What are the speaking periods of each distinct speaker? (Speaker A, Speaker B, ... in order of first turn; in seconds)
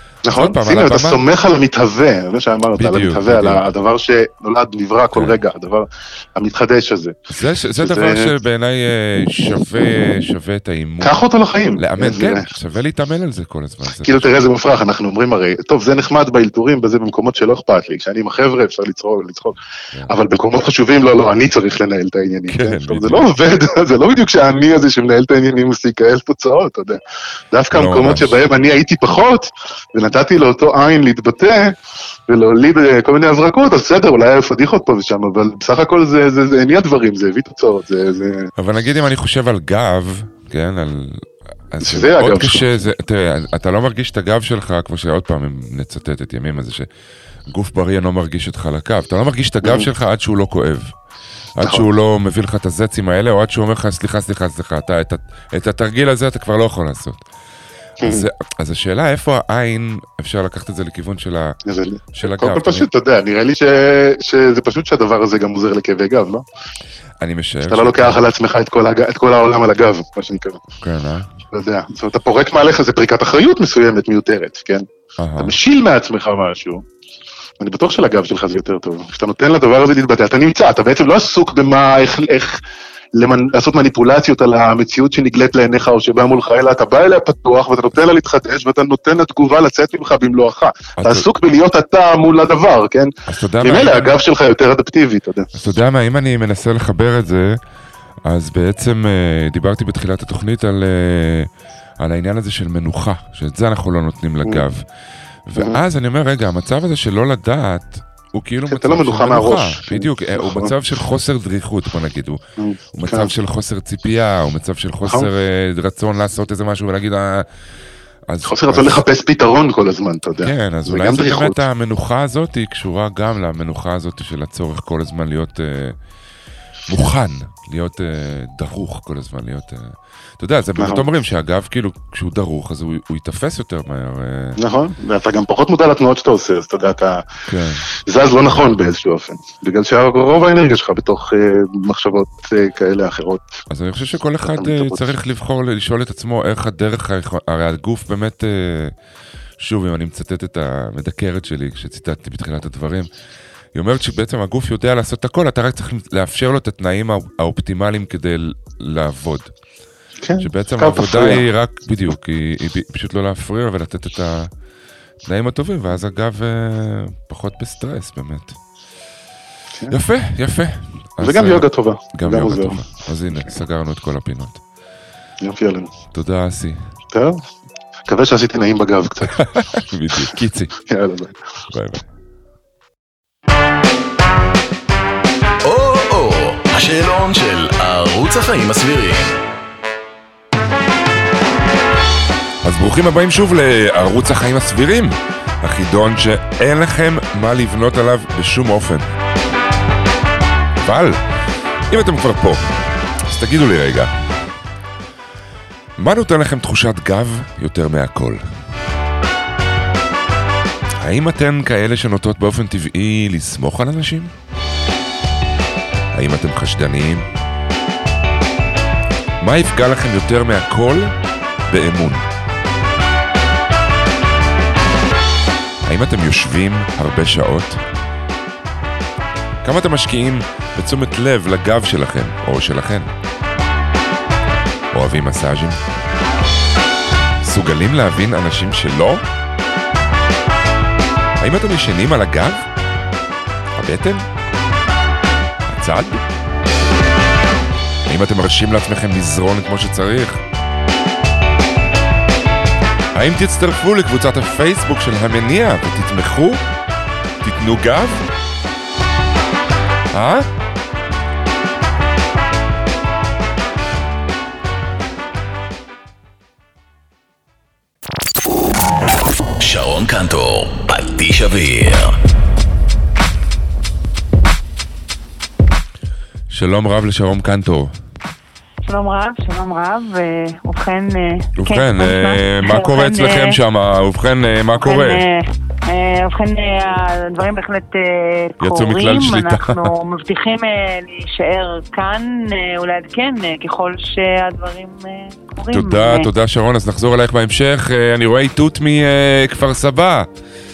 Speaker A: 0.2-7.2, 7.8-8.3, 11.0-12.5, 14.0-27.0, 27.5-31.7, 32.3-38.5, 41.8-42.6, 49.6-49.9, 51.6-51.9, 58.0-58.3, 61.6-66.4, 67.6-70.6, 71.5-74.8, 75.4-76.8, 77.6-82.6, 83.2-93.1, 93.6-95.5, 105.5-105.8, 108.7-110.7, 112.6-113.3, 115.0-115.3, 118.4-121.6, 130.8-131.1, 134.6-137.2, 138.1-143.6, 144.6-145.1, 160.2-161.4, 171.2-173.5, 175.4-175.9, 177.1-177.4, 178.1-179.4, 180.9-181.3
Speaker B: 0.3-1.2, 2.8-3.6, 7.3-11.2, 11.8-14.3, 22.5-23.3, 27.7-28.4, 38.6-46.9, 47.5-50.9, 51.5-57.2, 58.0-61.6, 62.1-62.9, 67.2-68.2, 70.8-71.3, 75.2-75.5, 91.0-91.2, 93.3-94.1, 95.5-97.6, 98.2-101.5, 102.0-104.8, 105.5-112.4, 112.9-117.5, 118.3-119.0, 120.4-126.0, 126.9-134.6, 137.5-137.8, 143.7-148.9, 149.6-153.1, 153.7-159.5, 160.4-164.5, 165.2-168.6, 169.9-174.6, 176.1-176.8, 179.4-180.7, 181.7-182.0, 192.6-199.1, 200.8-201.2, 201.9-204.1, 206.0-208.4, 211.0-214.3, 216.1-217.2, 219.4-221.1, 221.7-222.2, 225.8-227.8, 229.6-233.1, 234.9-235.8, 237.4-239.2, 241.4-242.6, 243.8-244.2, 245.7-246.2, 248.1-250.4, 253.1-256.6, 257.4-258.2, 260.1-260.4, 276.5-277.9, 281.6-285.2, 288.6-289.9, 295.7-300.3
Speaker C: 185.6-189.4, 269.6-272.1
Speaker D: 278.8-283.6, 284.8-296.3